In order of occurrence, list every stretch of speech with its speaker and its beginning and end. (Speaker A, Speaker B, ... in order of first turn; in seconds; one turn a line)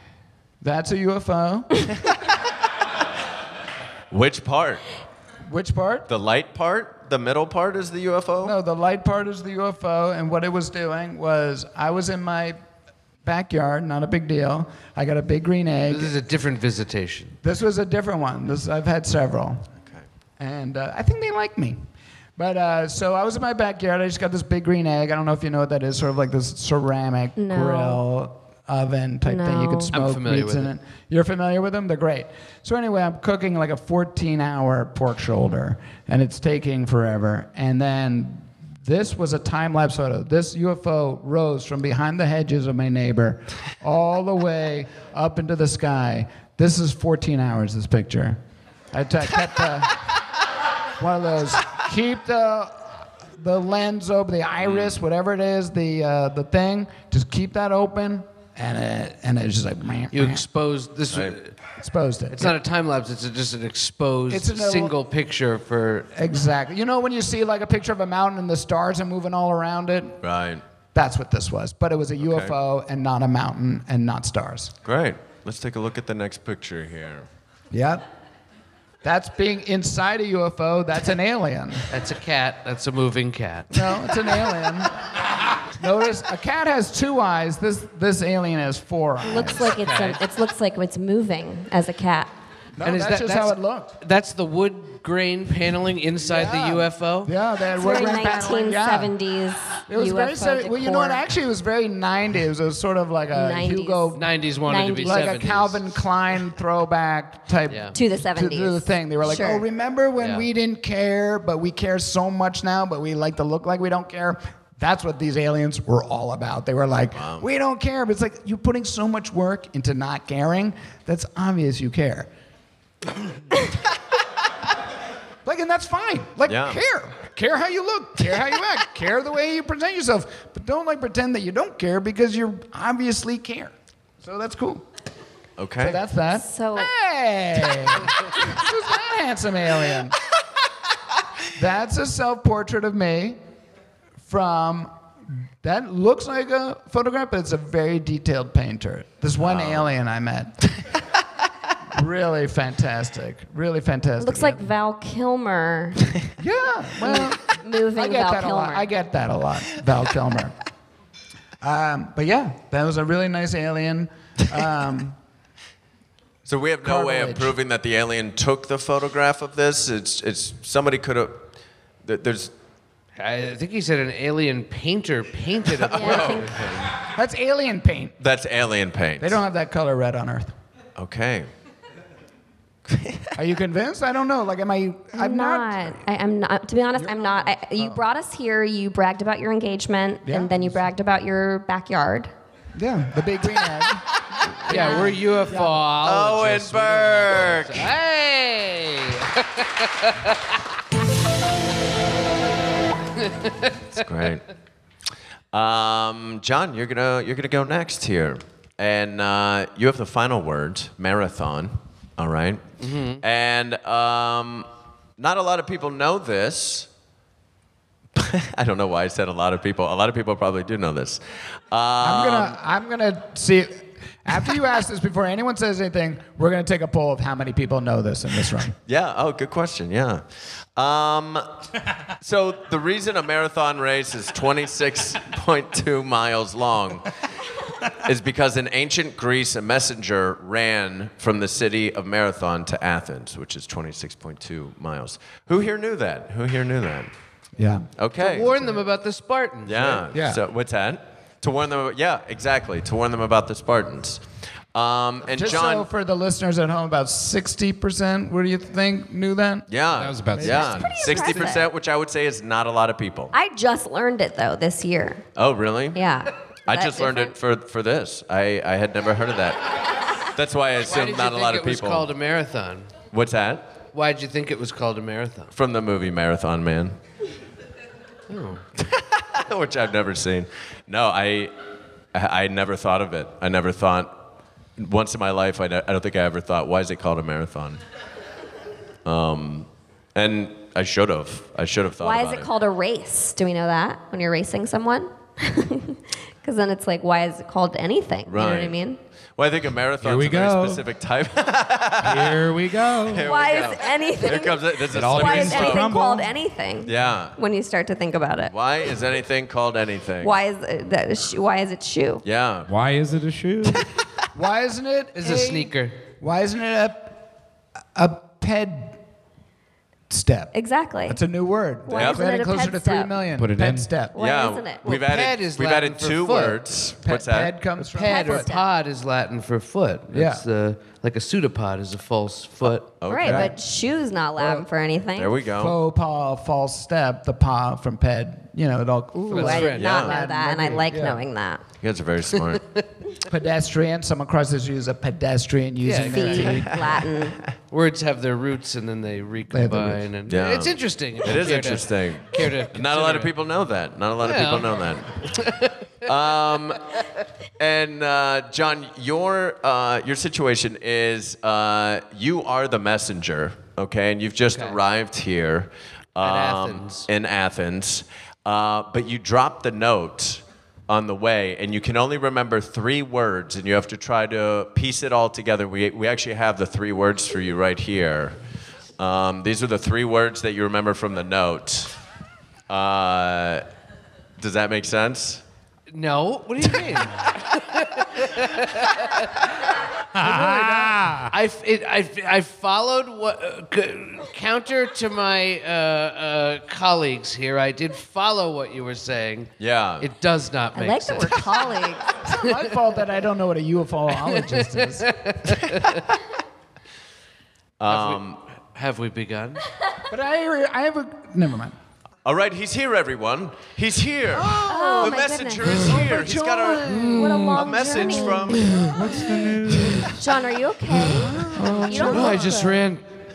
Speaker A: 0.6-1.9
Speaker B: 4.1-4.8
Speaker A: 5.5-6.1
Speaker B: 6.1-8.6
Speaker A: 8.4-12.6
Speaker A: 13.2-16.1
Speaker C: 15.9-17.4
Speaker A: 17.4-19.7
Speaker A: 20.4-48.4
Speaker D: 27.4-28.0
Speaker D: 29.2-29.9
Speaker C: 29.9-30.7
Speaker A: 48.9-50.0
Speaker A: 51.0-60.4
Speaker B: 54.6-55.0
Speaker C: 60.1-61.5
Speaker B: 61.1-61.4
Speaker A: 61.8-62.6
Speaker C: 62.3-66.1
Speaker A: 64.3-65.0
Speaker A: 66.1-70.2
Speaker B: 70.2-70.6
Speaker A: 70.9-74.7
Speaker B: 72.2-72.5
Speaker B: 74.8-77.3
Speaker A: 77.7-78.0
Speaker A: 79.0-81.9
Speaker C: 81.9-83.9
Speaker A: 83.7-85.0
Speaker A: 85.7-89.8
Speaker D: 89.2-92.3
Speaker C: 89.8-90.2
Speaker A: 92.8-94.0
Speaker C: 92.8-97.3
Speaker A: 96.2-99.2
Speaker D: 97.8-101.2
Speaker A: 99.9-122.3
Speaker D: 103.3-104.2
Speaker C: 104.2-105.8
Speaker D: 104.7-105.3
Speaker C: 107.7-108.0
Speaker D: 107.9-109.6
Speaker C: 110.2-110.5
Speaker B: 117.2-117.5
Speaker A: 125.5-134.9
Speaker B: 126.5-126.8
Speaker B: 135.6-136.0
Speaker A: 135.8-140.2
Speaker D: 136.3-136.9
Speaker A: 141.6-143.4
Speaker A: 144.2-144.9
Speaker A: 145.6-150.7
Speaker B: 149.4-149.9
Speaker A: 151.9-154.7
Speaker D: 154.2-156.1
Speaker A: 156.4-160.6
Speaker D: 157.0-158.9
Speaker A: 161.6-165.2
Speaker B: 166.5-171.5
Speaker A: 166.8-167.6
Speaker B: 172.1-172.5
Speaker C: 173.2-177.0
Speaker B: 175.8-176.6
Speaker D: 175.9-176.5
Speaker A: 177.0-178.2
Speaker B: 178.2-179.4
Speaker A: 179.2-180.5
Speaker B: 181.0-181.5
Speaker B: 182.9-183.3
Speaker A: 183.3-186.0
Speaker D: 185.1-192.3
Speaker A: 187.0-188.0
Speaker A: 190.2-190.8
Speaker A: 192.8-194.1
Speaker C: 194.7-200.4
Speaker D: 194.7-195.1
Speaker A: 194.7-195.8
Speaker B: 196.0-197.9
Speaker C: 203.2-203.8
Speaker B: 203.9-204.4
Speaker B: 205.5-212.6
Speaker C: 212.8-213.2
Speaker B: 213.2-216.9
Speaker B: 218.2-222.6
Speaker A: 222.0-228.8
Speaker B: 228.9-230.2
Speaker B: 230.8-231.5
Speaker B: 232.2-237.1
Speaker B: 237.9-247.1
Speaker A: 247.6-247.9
Speaker B: 248.0-248.7
Speaker C: 248.2-250.1
Speaker B: 249.7-254.2
Speaker A: 250.1-250.4
Speaker B: 254.7-255.9
Speaker A: 255.3-259.7
Speaker B: 259.7-263.3
Speaker E: 259.9-261.5
Speaker A: 260.3-260.8
Speaker D: 260.6-261.7
Speaker D: 263.3-265.2
Speaker B: 265.4-266.0
Speaker D: 265.9-267.4
Speaker B: 266.7-272.1
Speaker C: 270.8-272.9
Speaker B: 273.1-273.7
Speaker C: 273.9-275.5
Speaker B: 275.5-277.0
Speaker C: 278.3-278.6
Speaker B: 278.8-281.5
Speaker B: 282.1-284.1
Speaker B: 284.8-287.8
Speaker B: 289.1-292.5
Speaker D: 292.0-299.0
Speaker B: 298.3-298.8
Speaker B: 299.4-302.5
Speaker E: 300.0-300.8
Speaker E: 302.0-303.3
Speaker B: 303.1-305.9
Speaker D: 303.2-308.5
Speaker E: 304.9-306.4
Speaker B: 306.9-307.4
Speaker B: 308.5-310.3
Speaker D: 310.2-312.2
Speaker B: 312.2-312.7
Speaker E: 312.7-313.8
Speaker A: 314.4-317.2
Speaker C: 315.2-316.0
Speaker A: 317.9-319.0
Speaker A: 320.1-320.5
Speaker D: 320.5-321.2
Speaker A: 321.1-324.1
Speaker D: 321.9-323.1
Speaker B: 321.9-322.3
Speaker E: 323.4-323.9
Speaker D: 324.1-324.8
Speaker B: 324.2-327.6
Speaker C: 324.8-326.6
Speaker A: 327.0-328.5
Speaker C: 327.9-332.9
Speaker D: 328.0-328.7
Speaker A: 330.1-330.4
Speaker B: 333.0-333.5
Speaker D: 333.1-335.4
Speaker A: 333.2-333.6
Speaker A: 334.4-334.7
Speaker B: 335.2-335.8
Speaker A: 335.6-341.2
Speaker D: 339.1-341.6
Speaker C: 339.3-340.1
Speaker B: 339.8-340.1
Speaker B: 341.8-342.6
Speaker A: 343.3-346.8
Speaker C: 345.8-346.7
Speaker D: 346.1-347.4
Speaker C: 347.7-353.3
Speaker A: 349.5-350.0
Speaker B: 350.3-355.4
Speaker C: 354.2-355.8
Speaker B: 356.0-356.8
Speaker B: 357.6-378.4
Speaker C: 364.5-364.8
Speaker C: 366.2-367.1
Speaker B: 379.0-382.0
Speaker B: 382.7-383.6
Speaker B: 384.4-385.4
Speaker C: 385.9-389.5
Speaker E: 390.2-391.3
Speaker A: 390.2-391.2
Speaker C: 391.3-401.7
Speaker B: 399.6-400.1
Speaker D: 400.8-402.2
Speaker A: 402.2-405.1
Speaker C: 402.4-402.7
Speaker C: 404.2-406.0
Speaker B: 407.8-408.4
Speaker C: 407.9-409.6
Speaker A: 410.1-411.8
Speaker B: 412.2-418.9
Speaker A: 414.3-417.3
Speaker D: 414.7-416.0
Speaker C: 416.8-418.9
Speaker D: 416.9-418.8
Speaker E: 418.9-420.2
Speaker D: 420.2-422.7
Speaker A: 421.0-422.8
Speaker C: 421.6-423.1